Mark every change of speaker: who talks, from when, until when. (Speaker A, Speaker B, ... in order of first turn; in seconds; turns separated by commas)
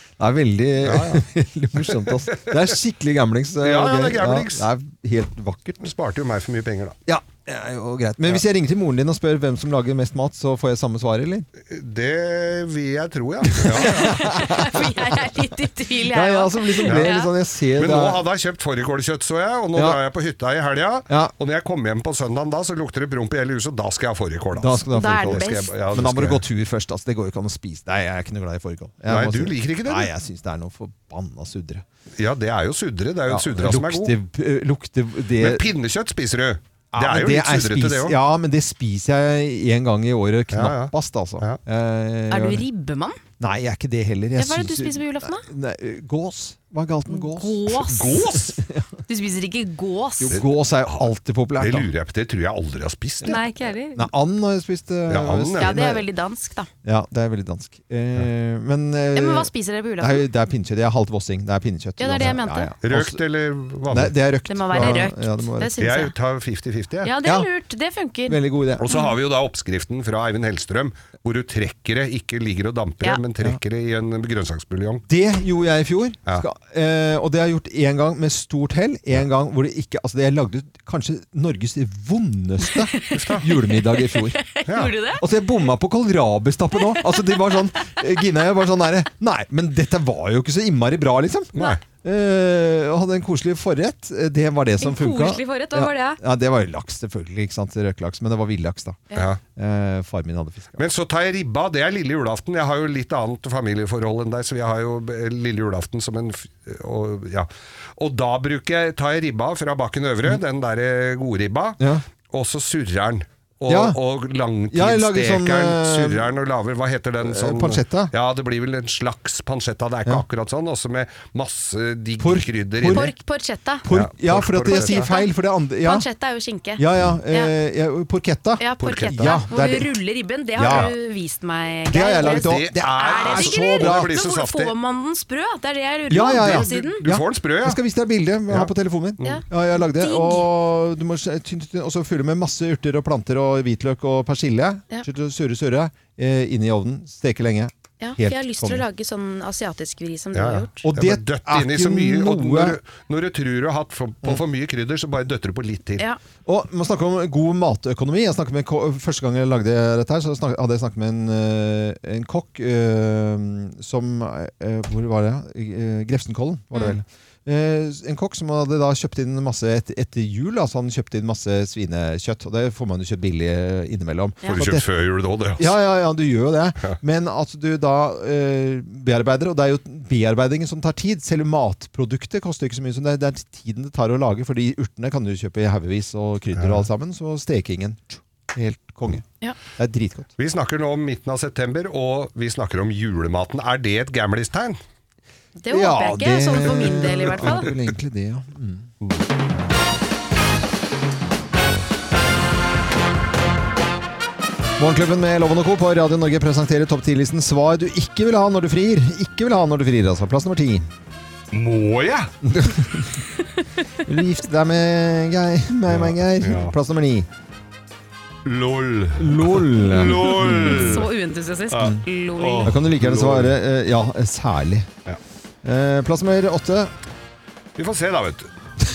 Speaker A: 0.2-5.9, Speaker B: 0.8-1.2, Speaker B: 1.9-2.5, Speaker B: 3.6-4.7, Speaker B: 5.8-7.0, Speaker A: 7.0-11.5, Speaker B: 11.6-14.2, Speaker A: 13.5-15.2, Speaker C: 13.8-17.3, Speaker A: 16.0-18.2, Speaker B: 17.8-26.4, Speaker A: 24.5-31.8, Speaker C: 24.9-25.7, Speaker B: 29.1-30.1, Speaker B: 32.2-34.1, Speaker A: 33.3-35.6, Speaker B: 35.4-38.1, Speaker A: 36.9-42.7, Speaker B: 40.5-41.6, Speaker C: 42.3-43.2, Speaker A: 43.4-48.8, Speaker C: 44.4-45.5, Speaker C: 47.1-48.1, Speaker B: 47.9-48.5, Speaker C: 49.1-50.4, Speaker A: 50.2-51.9, Speaker B: 50.3-53.4, Speaker C: 53.2-54.0, Speaker A: 53.9-56.0, Speaker B: 55.1-55.7, Speaker C: 55.6-56.7, Speaker A: 56.8-63.2, Speaker C: 59.1-60.2, Speaker C: 62.0-62.7, Speaker B: 62.8-64.2, Speaker A: 63.9-65.8, Speaker C: 64.5-66.1, Speaker B: 65.8-67.1, Speaker C: 67.0-68.4, Speaker A: 67.2-67.5, Speaker A: 68.3-68.9, Speaker B: 68.8-75.0, Speaker A: 75.1-84.4, Speaker C: 82.7-85.2, Speaker B: 83.1-83.5, Speaker B: 84.7-84.9, Speaker A: 85.2-99.0, Speaker C: 86.8-87.9, Speaker B: 91.5-91.8, Speaker C: 94.8-96.2, Speaker B: 99.1-99.4, Speaker A: 99.5-100.8, Speaker B: 100.8-123.1, Speaker A: 111.8-112.0, Speaker A: 113.7-114.0, Speaker A: 114.7-116.3, Speaker A: 117.2-118.1, Speaker A: 122.2-123.1, Speaker C: 122.9-123.8, Speaker A: 123.8-126.0, Speaker B: 123.9-125.1, Speaker C: 124.6-125.3, Speaker C: 125.8-127.5, Speaker A: 126.8-129.9, Speaker C: 128.6-137.0, Speaker B: 128.8-129.4, Speaker A: 130.5-130.9, Speaker B: 130.7-130.9, Speaker A: 131.9-134.1, Speaker B: 132.2-134.7, Speaker A: 136.1-148.8, Speaker B: 136.3-137.8, Speaker C: 139.2-140.5, Speaker C: 148.0-150.9, Speaker B: 150.3-156.0, Speaker A: 150.9-152.8, Speaker A: 156.4-174.9, Speaker B: 174.5-175.7, Speaker A: 175.6-189.2, Speaker B: 186.5-186.9, Speaker A: 189.8-190.3, Speaker B: 190.4-194.8, Speaker C: 195.6-197.7, Speaker A: 195.7-198.9, Speaker A: 204.8-210.9, Speaker B: 211.5-212.3, Speaker A: 212.4-213.2, Speaker A: 214.0-217.3, Speaker B: 215.9-216.7, Speaker B: 218.4-221.1, Speaker A: 219.2-221.0, Speaker C: 220.4-222.7, Speaker B: 221.7-223.5, Speaker A: 222.6-224.9, Speaker A: 225.6-226.9, Speaker B: 227.8-228.5